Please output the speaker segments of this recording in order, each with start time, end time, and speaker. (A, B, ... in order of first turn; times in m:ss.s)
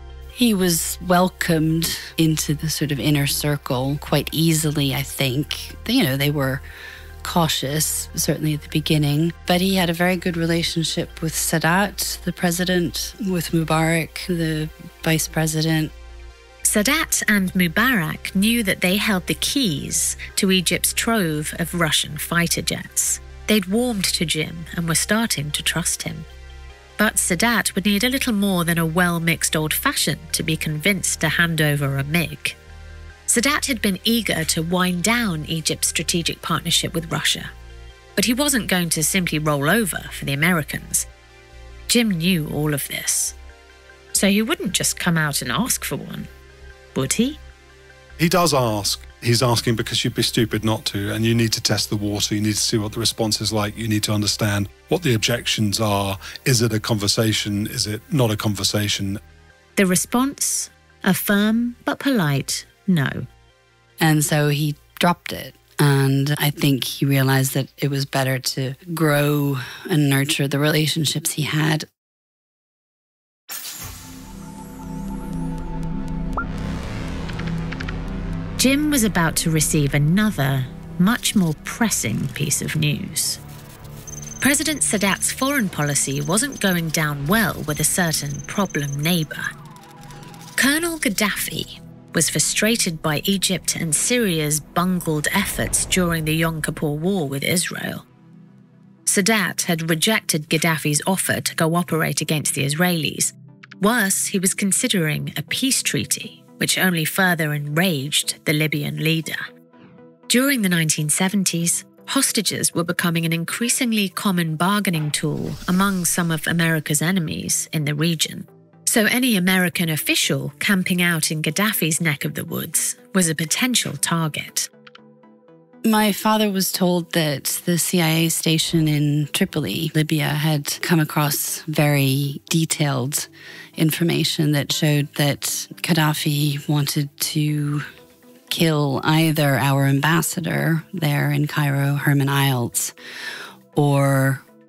0:00.4-0:06.6 A
0:07.2-0:15.9 A
0:16.6-0:26.3 B
0:27.0-0:32.6 B
0:33.3-0:37.5 B
0:38.2-0:41.1 B
0:41.9-0:43.4 B
0:44.1-0:46.3 B
0:47.0-0:47.4 B
0:48.2-0:59.2 C
0:59.8-1:03.3 B
1:04.0-1:11.9 A
1:18.6-1:23.4 B
1:24.4-1:29.5 B
1:30.6-1:38.0 B
1:39.1-1:49.4 B
1:50.3-2:04.7 B
2:05.8-2:17.9 A
2:18.5-2:23.0 A
2:23.7-2:24.4 A